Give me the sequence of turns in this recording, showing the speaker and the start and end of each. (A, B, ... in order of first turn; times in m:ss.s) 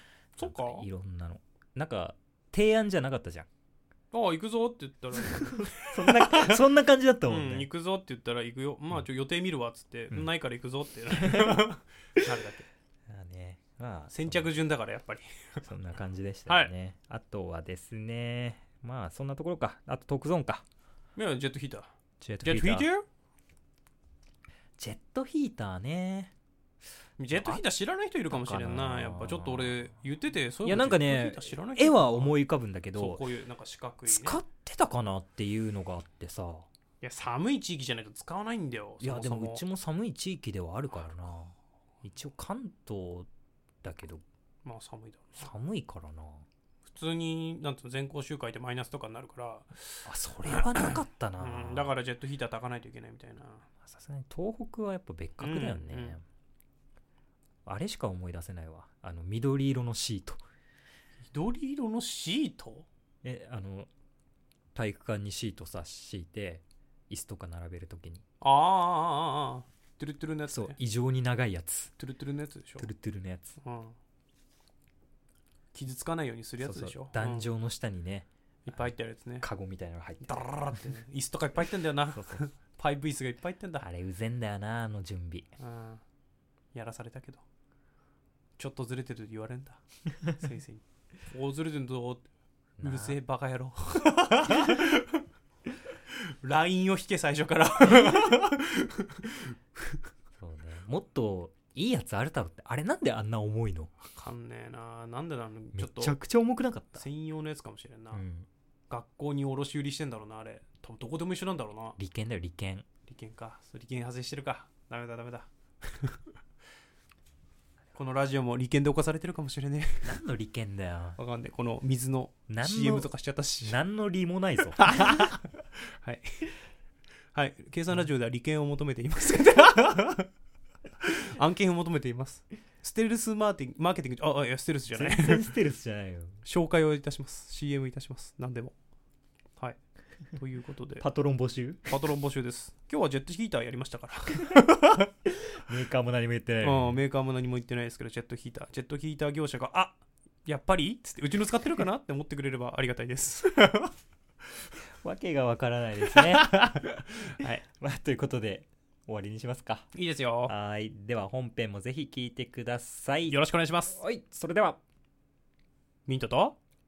0:00.4-0:03.5 A
0:00.4-0:00.8 B
0:04.1-0:06.6 B
0:05.2-0:07.7 A
0:07.3-0:12.7 B
0:11.2-0:11.6 A
0:13.1-0:14.5 A
0:14.1-0:15.6 B
0:15.6-0:20.6 A
0:21.2-0:21.9 B
0:22.2-0:22.9 A
0:22.4-0:23.0 B
0:24.8-0:26.3 A
0:27.2-0:32.4 B
0:27.3-0:27.6 A
0:28.3-0:29.8 A
0:30.6-0:33.2 A
0:32.9-0:34.4 B
0:34.1-0:36.7 A
0:37.0-0:39.6 B
0:39.0-0:43.3 A
0:43.8-0:44.2 A
0:44.6-0:45.5 B
0:45.4-0:46.4 A
0:46.9-0:53.6 B
0:50.0-0:51.9 A
0:53.8-0:56.2 A
0:55.4-0:56.2 B
0:57.6-1:00.4 A
1:01.3-1:02.8 B
1:03.2-1:03.9 A
1:04.7-1:08.2 A
1:08.4-1:10.8 B
1:10.5-1:11.9 A
1:12.0-1:12.9 B
1:12.8-1:13.6 A
1:13.6-1:14.0 B
1:15.7-1:17.5 B
1:16.6-1:20.9 A
1:18.6-1:19.5 B
1:20.2-1:23.9 B
1:22.0-1:22.5 A
1:23.8-1:25.5 A
1:25.6-1:26.0 B
1:26.7-1:27.4 B
1:28.6-1:32.2 B
1:32.8-1:33.2 A
1:32.8-1:35.2 B
1:36.1-1:40.0 B
1:40.4-1:43.9 A
1:44.0-1:46.2 B
1:45.7-1:47.0 A
1:46.9-1:48.2 B
1:48.1-1:48.5 A
1:48.9-1:52.0 B
1:52.0-1:52.8 A
1:53.0-1:56.2 B
1:57.9-2:00.2 B
2:00.0-2:01.2 A
2:01.2-2:03.8 B
2:02.5-2:03.1 A
2:03.6-2:05.1 A
2:04.7-2:06.5 B
2:07.3-2:10.3 B
2:11.0-2:15.6 B
2:14.9-2:16.4 A
2:16.4-2:18.7 B
2:20.4-2:21.0 B
2:21.0-2:22.0 A
2:21.9-2:25.1 B
2:25.6-2:27.0 A
2:26.6-2:33.9 B
2:35.0-2:39.9 A
2:36.1-2:37.6 B
2:39.9-2:40.5 B
2:40.4-2:44.8 A
2:43.3-2:44.0 B
2:46.1-2:46.6 B